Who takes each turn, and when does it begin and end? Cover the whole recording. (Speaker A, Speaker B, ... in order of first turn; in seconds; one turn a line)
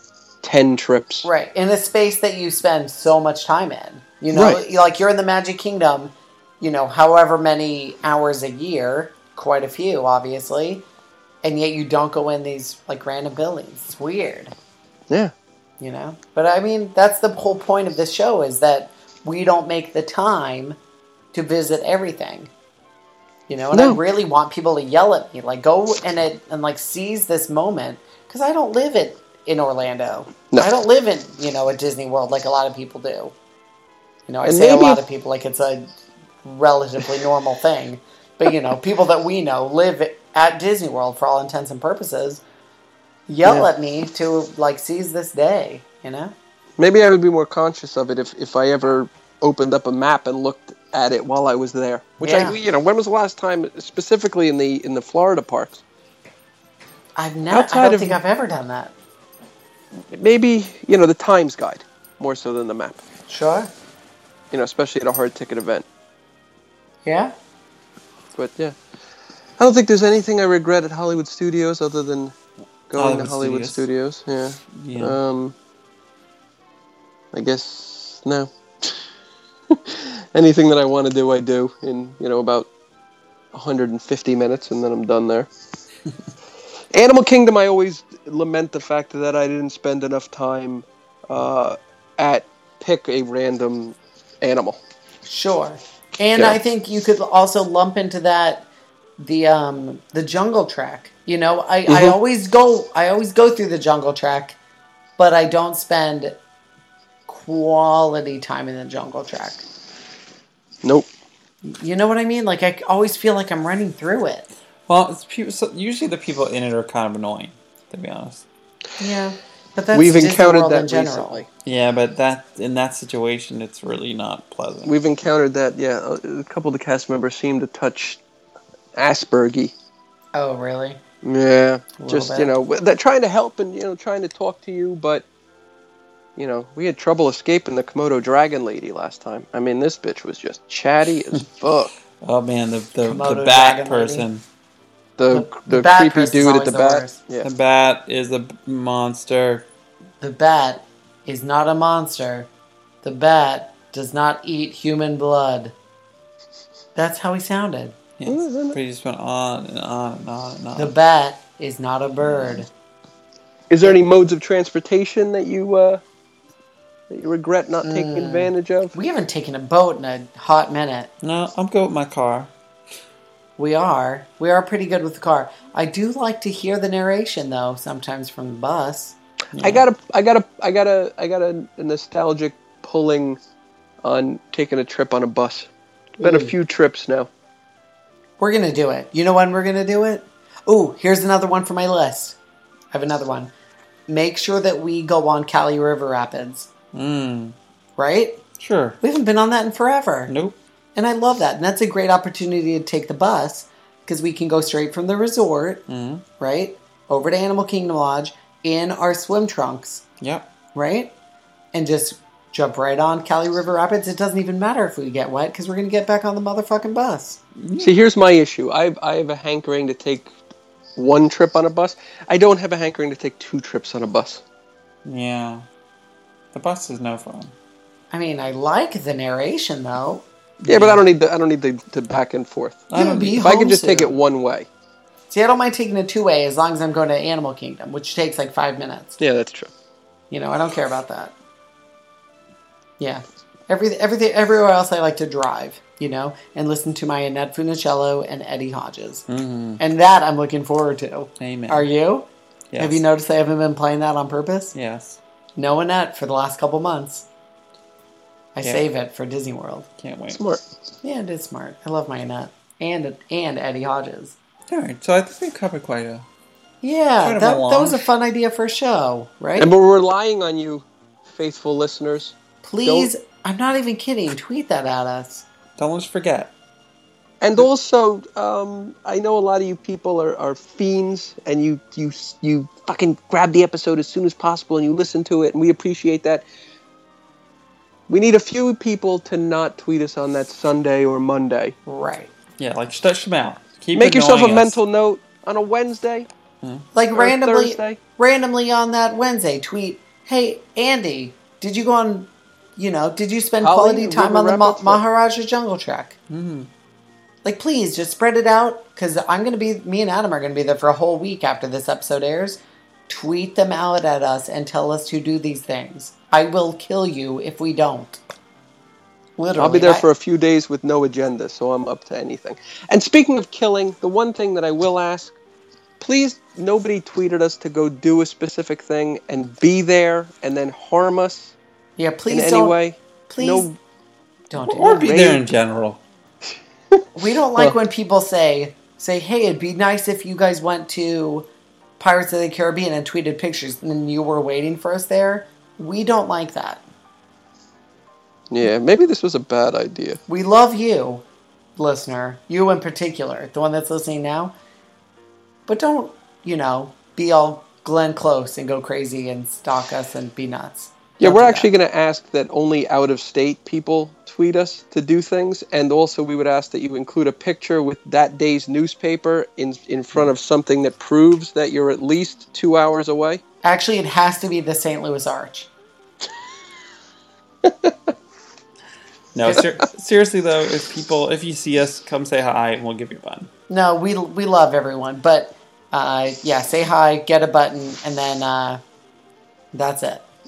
Speaker A: 0.4-1.3
Speaker B: 1.2-10.8
Speaker A: 4.3-4.6
Speaker B: 11.4-14.5
Speaker B: 15.8-20.8
Speaker B: 21.3-22.5
Speaker B: 23.5-33.3
Speaker A: 23.7-24.0
Speaker B: 34.3-35.9
Speaker A: 34.5-35.0
Speaker B: 36.4-42.4
Speaker B: 43.3-46.3
Speaker A: 46.8-55.8
Speaker B: 52.2-52.6
Speaker B: 57.2-58.9
Speaker A: 57.5-58.2
Speaker A: 60.1-63.0
Speaker B: 63.3-63.7
Speaker A: 64.5-65.9
Speaker B: 67.0-67.3
Speaker A: 68.3-68.8
Speaker A: 69.6-72.3
Speaker A: 72.9-75.5
Speaker C: 73.0-73.9
Speaker C: 74.7-75.2
Speaker A: 77.3-79.0
Speaker A: 79.7-82.7
Speaker A: 83.5-85.5
Speaker A: 86.9-94.8
Speaker B: 95.3-98.7
Speaker B: 99.2-104.6
Speaker A: 101.9-102.2
Speaker B: 105.2-106.4
Speaker B: 107.3-109.7
Speaker A: 110.8-111.1
Speaker B: 111.7-114.5
Speaker C: 114.9-118.5
Speaker B: 119.0-121.4
Speaker A: 119.9-121.5
Speaker C: 121.7-124.9
Speaker A: 124.9-128.2
Speaker A: 128.9-129.7
Speaker B: 130.3-131.0
Speaker A: 131.2-135.3
Speaker B: 132.0-132.5
Speaker A: 136.4-141.9
Speaker C: 142.2-144.4
Speaker B: 143.0-144.3
Speaker A: 145.2-147.5
Speaker B: 145.3-147.2
Speaker C: 147.4-149.7
Speaker B: 150.2-152.5
Speaker B: 153.0-155.7
Speaker B: 156.9-157.9
Speaker C: 158.2-160.9
Speaker A: 158.3-158.8
Speaker B: 160.8-162.7
Speaker C: 162.2-162.7
Speaker A: 163.7-166.0
Speaker A: 167.1-168.9
Speaker B: 167.8-171.1
Speaker C: 171.2-172.5
Speaker B: 173.6-179.2
Speaker C: 179.6-179.9
Speaker A: 179.6-183.4
Speaker A: 184.0-187.3
Speaker B: 186.2-186.5
Speaker B: 188.4-192.4
Speaker B: 192.9-193.5
Speaker B: 194.1-196.7
Speaker C: 196.9-197.6
Speaker B: 198.0-198.4
Speaker C: 198.6-199.0
Speaker B: 199.0-200.3
Speaker C: 200.3-200.6
Speaker B: 200.9-205.8
Speaker C: 205.9-206.2
Speaker B: 206.4-210.0
Speaker C: 210.2-210.5
Speaker B: 210.7-211.1
Speaker B: 211.7-217.4
Speaker C: 217.6-217.9
Speaker A: 217.8-220.3
Speaker A: 221.0-224.4
Speaker C: 225.1-225.7
Speaker C: 226.5-227.5
Speaker B: 228.1-230.2
Speaker C: 230.6-231.0
Speaker A: 230.7-234.7
Speaker C: 232.9-233.5
Speaker B: 232.9-234.1
Speaker B: 235.3-239.2
Speaker A: 239.2-239.7
Speaker B: 240.3-241.3
Speaker B: 243.0-249.3
Speaker C: 249.3-249.8
Speaker B: 249.8-254.8
Speaker C: 251.4-251.9
Speaker C: 252.7-253.0
Speaker C: 254.7-255.2
Speaker B: 255.6-257.3
Speaker B: 258.6-259.9
Speaker C: 260.0-260.4
Speaker A: 260.3-260.6
Speaker B: 261.0-264.4
Speaker C: 264.7-266.3
Speaker B: 266.8-269.7
Speaker C: 267.2-268.1
Speaker A: 269.6-273.1
Speaker B: 272.6-275.5
Speaker C: 275.8-276.5
Speaker A: 277.4-286.4
Speaker A: 288.1-291.8
Speaker B: 291.9-292.3
Speaker C: 292.6-294.8
Speaker A: 293.9-296.3
Speaker B: 296.9-306.2
Speaker A: 297.1-298.0
Speaker A: 303.6-305.0
Speaker C: 306.3-306.7
Speaker B: 307.4-318.2
Speaker B: 319.4-320.1
Speaker A: 319.6-325.4
Speaker A: 326.0-331.5
Speaker B: 332.0-332.8
Speaker A: 332.3-333.8
Speaker B: 333.3-333.7
Speaker B: 334.5-335.2
Speaker A: 334.7-335.4
Speaker C: 334.7-336.0
Speaker B: 337.2-341.5
Speaker B: 342.0-346.8
Speaker A: 348.5-350.2
Speaker B: 350.3-351.2
Speaker B: 351.8-354.5
Speaker B: 355.7-361.7
Speaker A: 361.2-373.4
Speaker B: 373.6-375.7
Speaker A: 377.6-378.1
Speaker C: 379.4-383.5
Speaker B: 383.7-388.8
Speaker B: 389.7-390.3